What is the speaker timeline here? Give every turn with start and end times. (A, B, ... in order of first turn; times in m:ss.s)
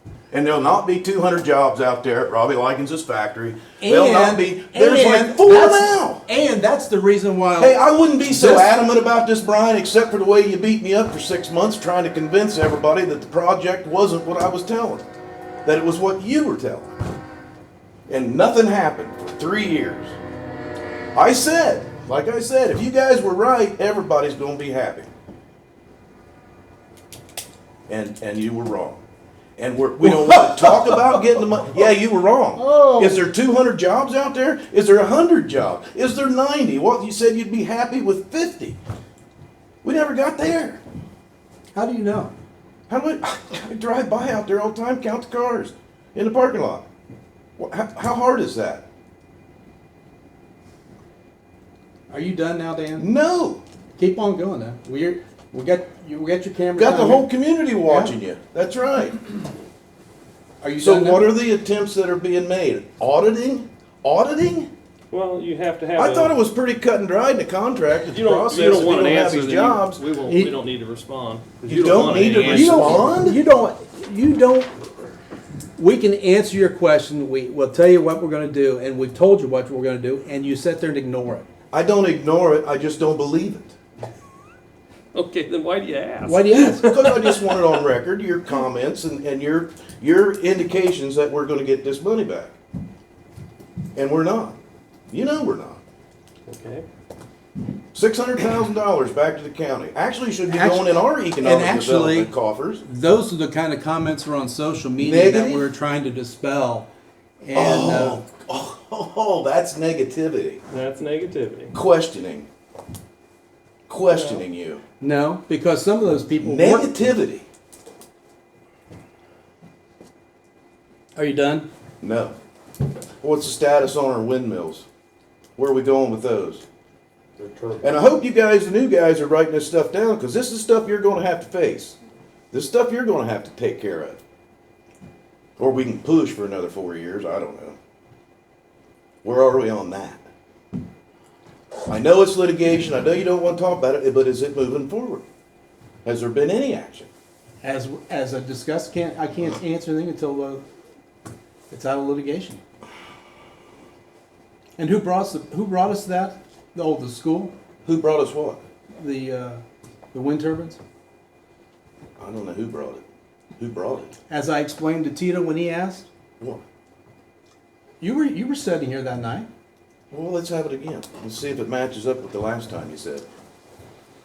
0:00.3-0:06.2 A
0:03.8-0:08.8 B
0:07.6-0:15.0 A
0:15.6-0:16.9 A
0:18.1-0:20.2 A
0:21.1-0:25.1 A
0:27.9-0:29.0 A
0:29.6-0:38.8 A
0:30.0-0:31.2 B
0:32.6-0:33.3 B
0:39.8-0:40.8 A
0:41.7-0:42.3 B
0:42.9-0:46.8 A
0:47.6-0:48.8 A
0:52.1-0:53.1 B
0:53.0-0:53.6 A
0:54.0-0:57.3 B
0:56.8-0:59.2 A
0:57.8-0:58.2 B
1:00.6-1:01.3 B
1:00.8-1:04.7 A
1:05.1-1:06.3 C
1:06.0-1:10.0 A
1:08.1-1:13.0 C
1:10.2-1:10.5 B
1:11.6-1:13.4 A
1:12.3-1:14.7 B
1:15.8-1:21.4 B
1:21.7-1:23.8 A
1:25.1-1:27.7 C
1:26.2-1:26.9 B
1:26.9-1:32.6 A
1:34.0-1:34.6 A
1:35.1-1:35.8 A
1:36.5-1:36.8 C
1:37.9-1:42.8 A
1:40.5-1:42.3 B
1:42.8-1:46.9 B
1:45.0-1:45.7 A
1:47.4-1:48.2 B
1:47.5-1:50.6 A
1:50.7-1:51.7 C
1:51.7-1:52.5 A
1:53.9-1:54.8 A
1:54.1-1:54.4 C
1:55.0-1:57.1 B
1:56.4-1:57.4 A
2:01.2-2:01.7 B
2:02.0-2:02.3 A
2:03.2-2:04.8 A
2:05.6-2:06.6 A
2:07.8-2:12.0 A
2:12.5-2:14.2 A
2:15.6-2:17.8 A
2:19.2-2:20.2 A
2:21.9-2:25.2 A
2:26.0-2:27.1 A
2:27.6-2:30.6 B
2:31.7-2:32.6 B
2:34.8-2:37.5 B
2:37.8-2:38.6 A
2:39.0-2:39.6 B
2:40.1-2:40.8 B
2:42.2-2:43.0 A
2:43.6-2:44.1 A
2:44.3-2:46.0 B
2:48.0-2:49.5 B
2:50.1-2:53.2 A